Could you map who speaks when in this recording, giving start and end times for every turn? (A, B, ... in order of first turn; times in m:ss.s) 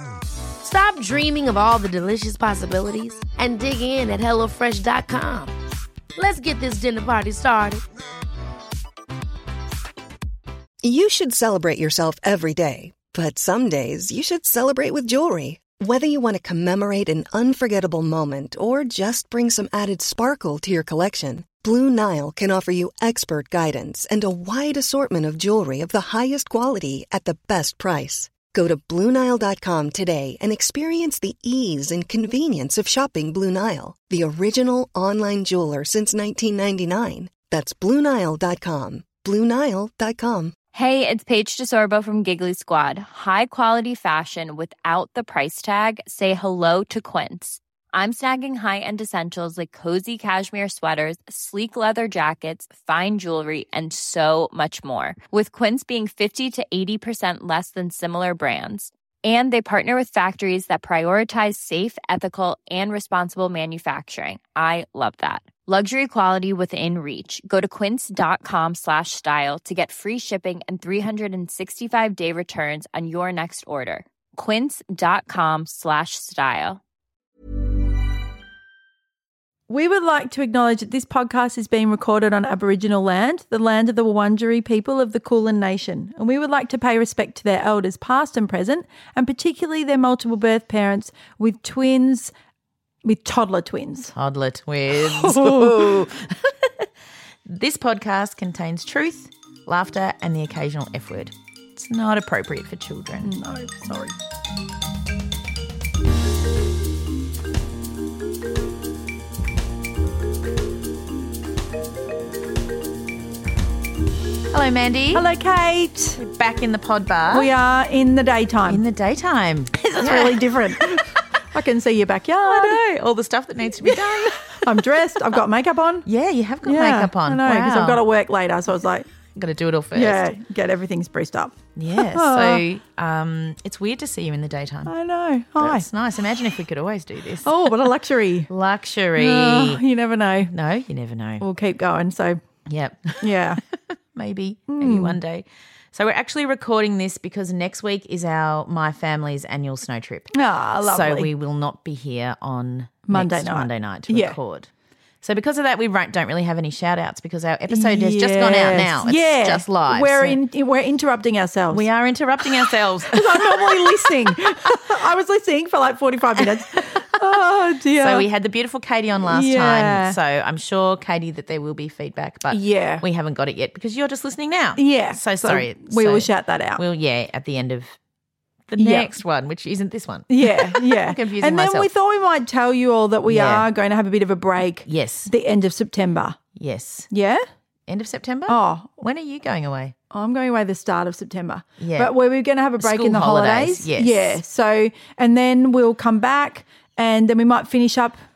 0:00.6-0:05.6 A
0:06.2-0:07.8 A
0:10.8-0:40.6 B
0:40.7-1:16.8 C
1:19.7-1:32.3 D
1:33.0-1:34.1 D
1:34.2-1:36.9 E
1:34.9-1:36.0 D
1:37.5-1:43.3 E
1:43.2-1:44.1 D
1:54.5-1:55.3 E
1:55.1-1:56.2 D
1:56.2-1:57.5 E
1:57.3-1:58.8 D
1:58.7-2:01.0 E
2:00.0-2:02.8 D
2:02.4-2:05.4 E
2:03.8-2:06.1 D
2:06.1-2:08.0 E
2:06.6-2:09.1 D
2:09.4-2:10.2 E
2:09.9-2:12.6 D
2:11.8-2:14.9 E
2:14.9-2:15.9 D
2:15.6-2:17.8 E
2:17.4-2:18.5 D
2:18.5-2:19.8 E
2:19.2-2:20.5 D
2:20.5-2:21.4 E
2:21.4-2:22.4 D
2:22.7-2:23.4 E
2:23.2-2:23.6 D
2:24.2-2:30.3 E
2:24.7-2:25.2 D
2:30.3-2:31.3 D
2:30.8-2:34.7 E
2:33.1-2:34.4 D
2:35.2-2:40.4 E
2:37.7-2:41.9 D
2:41.7-2:44.1 E
2:43.1-2:48.3 D
2:46.4-2:47.0 E
2:48.0-2:58.0 E
2:49.2-2:50.2 D
2:52.5-2:53.0 D
2:54.8-2:56.8 D
2:58.7-3:01.9 E
2:58.8-2:59.1 D
3:00.3-3:06.4 D
3:03.3-3:03.7 E
3:04.8-3:05.3 E
3:06.6-3:07.1 E
3:07.1-3:07.4 D
3:07.9-3:09.9 E
3:08.5-3:08.9 D
3:10.1-3:18.2 D
3:11.8-3:12.1 E
3:12.8-3:14.4 E